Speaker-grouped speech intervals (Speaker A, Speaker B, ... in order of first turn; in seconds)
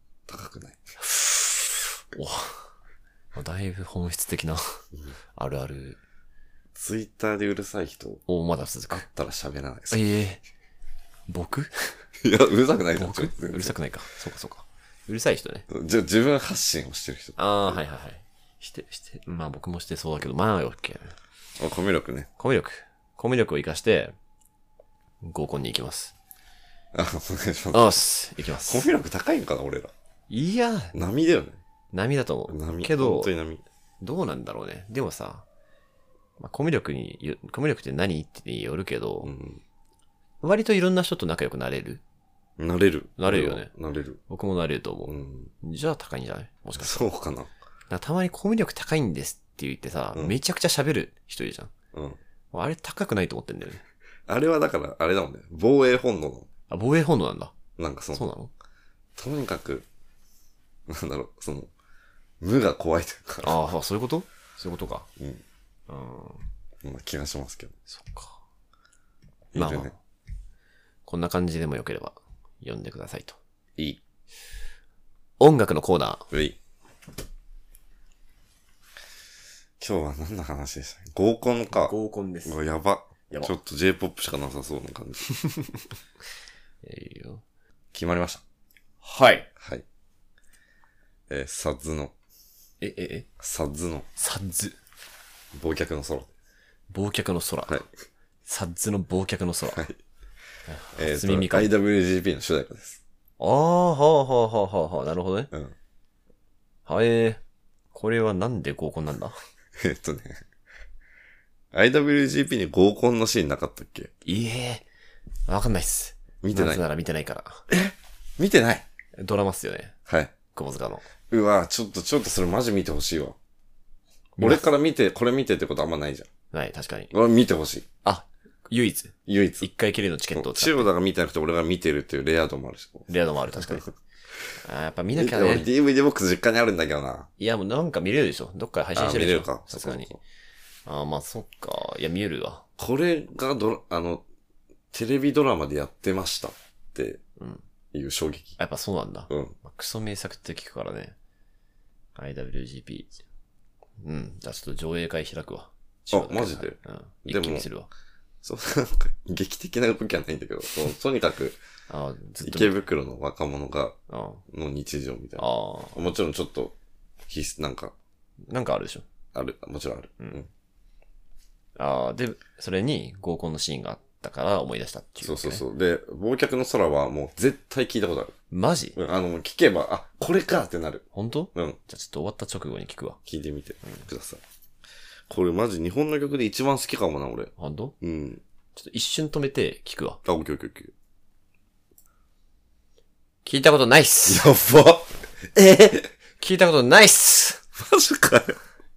Speaker A: 0.3-0.8, 6.8-8.2, 8.9-10.0, 12.2-13.8, 15.7-17.8, 21.6-22.3, 26.9-28.0, 28.7-29.9, 30.9-31.6, 32.5-33.6, 39.2-39.6, 42.6-44.2, 45.1-45.5, 46.8-47.5, 51.9-52.2, 54.3-56.5, 57.8-58.3, 59.2-59.9, 60.9-61.7, 62.4-63.6, 65.2-65.4, 66.8-67.8, 69.5-69.9, 76.3-76.6, 79.8-85.3, 87.9-88.4, 89.6-89.8, 91.3-92.1, 93.4-94.1, 95.5-96.3, 99.7-100.0, 101.0-103.0, 109.8-110.4, 111.7-114.1, 116.4-116.8, 117.7-118.9, 120.1-120.3, 121.3-123.4, 124.4-126.3, 127.1-127.9, 129.3-129.7, 130.3-133.8, 135.1-137.3, 138.9-140.2, 142.8-144.2, 144.9-147.2, 147.9-148.6, 149.3-149.6, 156.1-157.7, 158.4-161.6, 162.4-164.0, 164.5-167.9, 169.3-170.5, 175.2-178.3, 178.9-181.8, 183.3-184.4, 185.3-188.4, 190.2-190.9, 194.3-196.1, 197.8-198.6
Speaker B: 1.0-2.6, 3.4-4.8, 5.4-6.0, 8.3-9.1, 9.9-10.4, 11.3-11.7, 13.0-15.7, 17.4-21.1, 22.4-24.1, 25.2-26.1, 27.7-28.9, 30.3-30.9, 31.9-33.3, 34.0-35.5, 36.4-39.3, 40.4-42.0, 43.2-43.7, 44.3-47.1, 47.9-51.7, 52.5-53.8, 56.7-57.5, 58.1-58.5, 63.4-65.1, 65.9-66.5, 67.9-68.4, 69.5-69.9, 71.1-73.4, 75.4-76.3, 81.7-82.6, 85.3-85.8, 86.8-87.4, 89.0-89.5, 92.8-93.3, 94.2-94.8, 96.9-97.8, 98.5-99.9, 100.7-101.7, 103.4-105.5, 106.9-107.4, 107.9-109.4, 114.2-114.8, 115.5-117.7, 119.2-120.0, 120.5-121.0, 124.4-124.7, 126.5-127.1, 128.0-130.9, 133.1-133.9, 134.6-135.7, 137.4-140.2, 140.9-142.7, 147.4-147.6, 148.6-151.2, 152.2-153.1, 154.0-157.9, 161.9-162.8, 164.1-164.4, 165.4-166.1, 168.5-169.1, 171.8-175.6, 178.5-179.0, 181.1-183.2, 187.6-187.9, 188.8-190.2, 193.4-194.5, 196.4-197.6